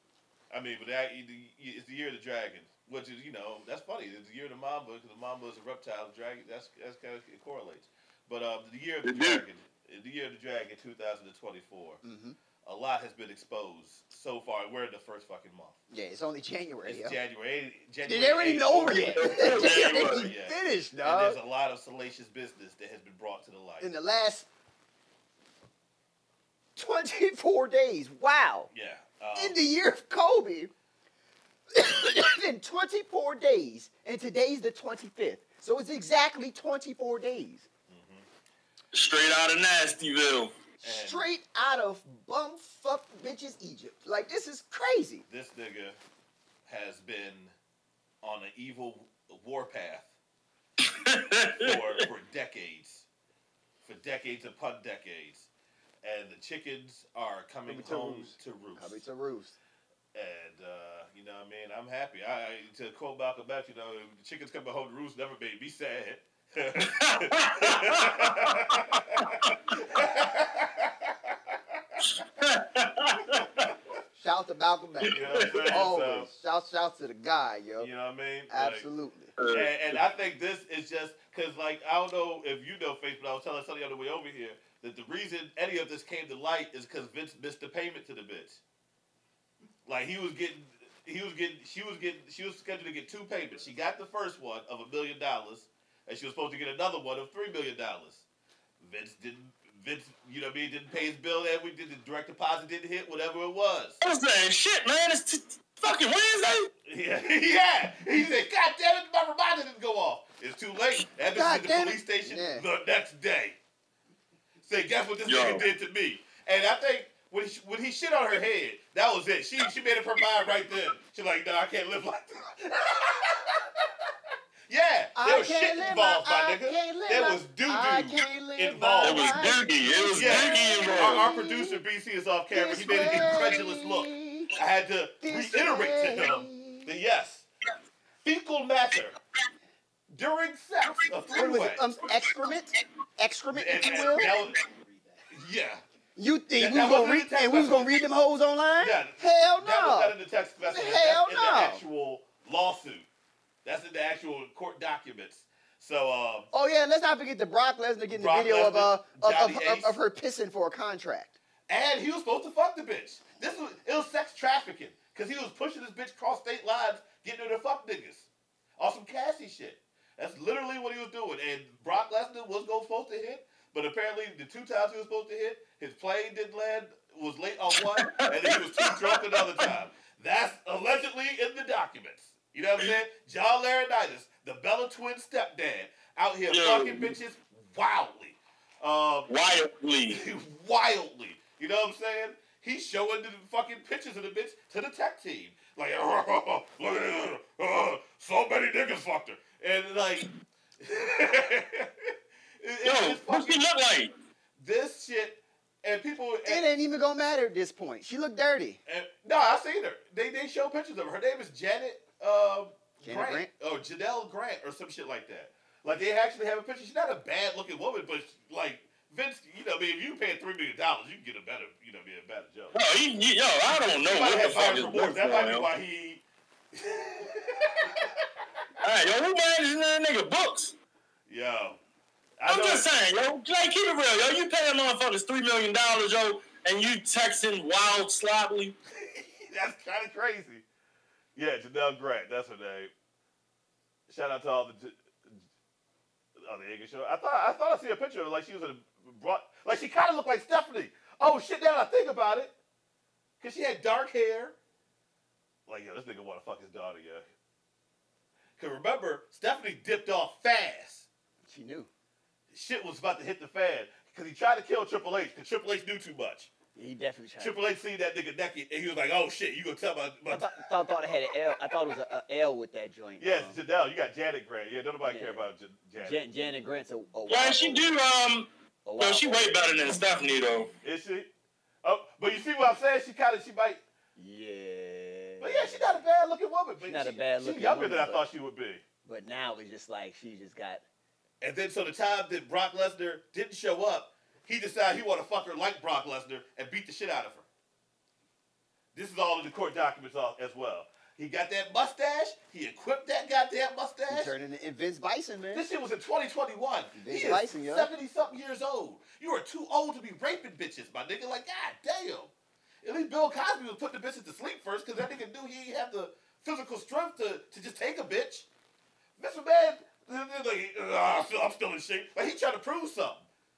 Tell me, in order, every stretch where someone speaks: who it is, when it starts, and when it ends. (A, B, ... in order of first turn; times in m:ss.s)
0:00.5-0:12.0 A
0:09.0-0:09.4 B
0:12.0-0:12.4 C
0:12.6-0:15.8 A
0:15.9-0:17.2 C
0:16.8-0:23.9 A
0:18.0-0:21.4 C
0:18.9-0:20.3 B
0:23.8-0:24.5 C
0:26.8-0:28.7 C
0:28.7-0:29.6 A
0:29.4-0:30.7 C
0:31.7-0:37.7 C
0:37.9-0:38.2 A
0:38.9-0:40.5 B
0:40.8-0:45.2 C
0:40.8-0:41.3 A
0:45.3-0:46.0 A
0:46.6-0:47.5 A
0:48.2-0:50.2 A
0:50.8-0:52.0 B
0:51.5-0:53.1 A
0:53.8-0:55.5 A
0:56.0-0:59.0 A
0:57.7-0:59.6 C
1:00.1-1:12.0 A
1:06.8-1:08.6 B
1:12.1-1:13.5 B
1:13.4-1:13.7 A
1:14.1-1:17.9 C
1:15.0-1:15.9 B
1:15.1-1:16.3 A
1:17.8-1:18.9 A
1:18.5-1:19.3 C
1:19.4-1:20.0 B
1:19.5-1:28.6 A
1:29.8-1:38.2 A
1:38.8-1:44.0 A
1:44.0-1:46.7 B
1:46.8-1:53.6 A
1:51.3-1:52.6 C
1:54.6-2:03.8 A
1:55.2-1:55.6 B
2:04.7-2:09.3 A
2:05.2-2:11.8 C
2:09.0-2:11.2 B
2:10.1-2:17.5 A
2:12.5-2:14.5 C
2:15.2-2:16.9 C
2:18.2-2:19.2 A
2:20.1-2:21.8 A
2:21.2-2:24.6 C
2:23.5-2:24.6 A
2:25.3-2:25.8 A
2:26.2-2:31.8 C
2:26.6-2:28.0 A
2:28.8-2:33.0 A
2:33.6-2:36.5 A
2:36.5-2:41.4 C
2:38.1-2:40.0 A
2:41.7-3:09.3 A
2:58.0-2:59.7 B
3:06.5-3:07.1 B
3:09.3-3:10.2 B
3:10.1-3:20.3 A
3:20.8-3:23.6 A
3:22.8-3:24.1 B
3:24.6-3:26.6 A
3:26.4-3:28.8 C
3:28.8-3:42.8 A
3:33.0-3:33.5 C
3:42.7-3:45.7 B
3:44.0-3:46.2 A
3:46.7-3:48.1 A
3:48.8-3:50.7 B
3:51.3-3:51.8 A
3:52.4-3:52.9 A
3:52.5-3:58.8 B
3:58.9-4:00.6 A
4:01.4-4:02.9 A
4:04.1-4:05.3 A
4:06.4-4:12.5 A
4:13.4-4:14.6 A
4:15.7-4:17.2 A
4:18.6-4:21.1 A
4:21.4-4:21.9 C
4:22.5-4:26.5 A
4:26.7-4:27.6 C
4:27.4-4:30.6 A
4:30.3-4:33.6 C
4:33.2-4:36.2 A
4:35.0-4:37.9 C
4:37.3-4:40.7 B
4:38.8-4:39.6 C
4:40.8-4:41.3 A
4:41.8-4:43.8 A
4:44.2-4:46.0 C
4:45.4-4:48.8 A
4:46.8-4:48.2 C
4:49.0-4:50.8 C
4:51.4-4:57.4 A
4:58.9-5:04.3 A
5:04.1-5:05.6 C
5:05.5-5:12.3 A
5:06.9-5:07.9 C
5:12.8-5:18.5 A
5:19.2-5:23.2 A